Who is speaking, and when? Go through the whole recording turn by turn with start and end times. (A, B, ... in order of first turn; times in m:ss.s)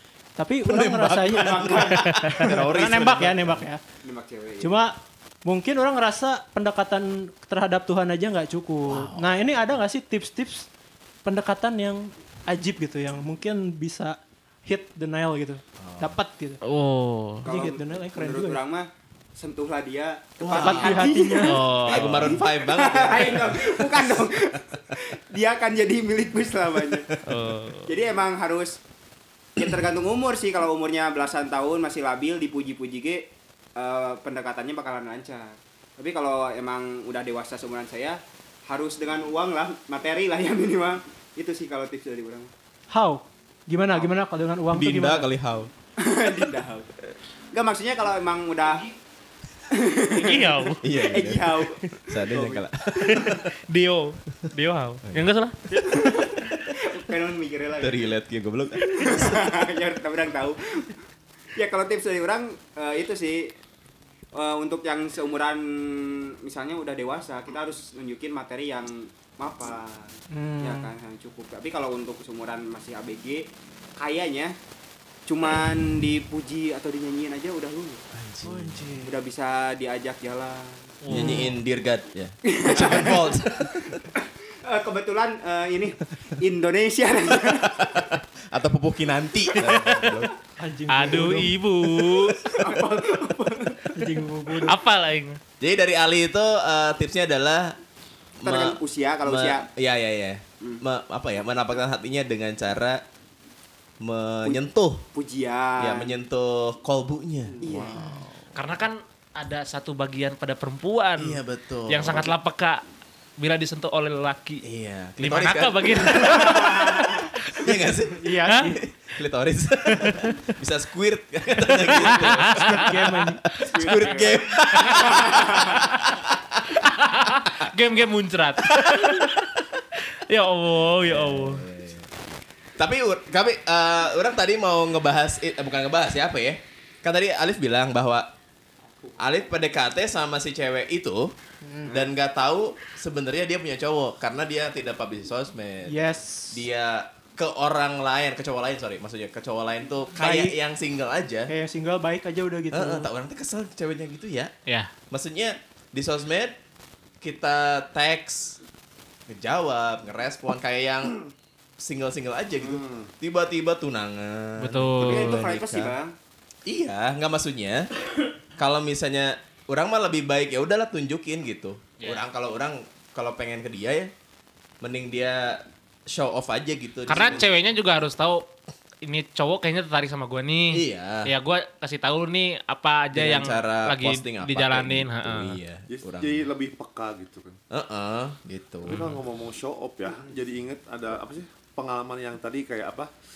0:00.4-0:03.8 A
0:00.6-0:03.6 B
0:01.4-0:02.0 C
0:04.0-0:04.7 C
0:04.6-0:10.7 A
0:08.8-0:09.4 B
0:11.2-0:16.6 A
0:15.8-0:16.2 B
0:16.6-0:17.5 D
0:17.4-0:27.1 C
0:17.5-0:18.6 A
0:20.4-0:24.3 B
0:20.5-0:21.6 A
0:21.4-0:22.3 D
0:27.2-0:27.9 D
0:27.9-0:28.8 C
0:29.6-0:42.5 C
0:42.9-0:45.3 A
0:44.7-0:45.7 B
0:46.0-0:46.9 C
0:47.5-0:48.9 C
0:49.8-0:50.4 C
0:50.1-0:50.8 D
0:50.8-0:53.5 B
0:51.0-0:52.4 C
0:53.0-0:55.7 D
0:55.8-0:58.0 C
0:56.0-0:56.6 B
0:57.8-0:59.5 B
0:58.9-1:00.9 C
1:01.6-1:03.5 C
1:04.3-1:14.5 C
1:10.3-1:10.9 A
1:15.3-1:18.0 C
1:18.1-1:18.9 B
1:18.4-1:19.1 A
1:19.0-1:20.8 C
1:21.0-1:21.4 D
1:21.1-1:24.0 B
1:21.2-1:21.5 A
1:22.5-1:23.4 C
1:24.2-1:28.0 C
1:27.8-1:30.3 B
1:30.6-1:31.5 A
1:30.9-1:32.4 D
1:32.4-1:34.0 C
1:33.9-1:34.8 A
1:34.6-1:35.4 D
1:35.6-1:37.8 B
1:38.4-1:43.0 B
1:38.4-1:39.7 C
1:44.0-1:45.0 B
1:44.4-1:46.2 C
1:45.8-1:48.6 B
1:47.6-1:48.0 C
1:48.5-1:52.8 D
1:51.2-1:52.3 B
1:53.4-1:54.6 D
1:54.6-2:06.6 B
1:55.2-1:57.2 D
1:56.4-1:57.1 C
1:58.1-1:58.7 A
1:59.9-2:00.3 D
2:02.0-2:02.7 D
2:02.5-2:03.5 A
2:03.6-2:05.8 C
2:06.8-2:09.3 D
2:08.8-2:09.6 B
2:10.3-2:11.6 D
2:11.1-2:12.1 B
2:12.8-2:18.3 B
2:19.2-2:21.3 B
2:21.6-2:21.9 A
2:21.9-2:31.5 B
2:25.8-2:26.6 A
2:30.1-2:30.5 A
2:31.5-2:33.1 A
2:32.7-2:34.5 B
2:34.7-2:34.9 D
2:35.1-2:36.5 B
2:37.2-2:38.6 B
2:39.3-2:41.2 B
2:41.8-2:45.9 B
2:42.6-2:43.1 E
2:44.6-2:45.4 D
2:45.0-2:46.1 C
2:46.7-2:47.9 B
2:48.6-2:54.1 B
2:54.8-2:57.4 B
2:57.1-2:58.5 D
2:59.0-3:05.6 D
3:00.7-3:01.3 B
3:03.1-3:06.5 B
3:05.9-3:07.6 E
3:07.7-3:09.0 B
3:08.9-3:09.2 D
3:08.9-3:13.1 E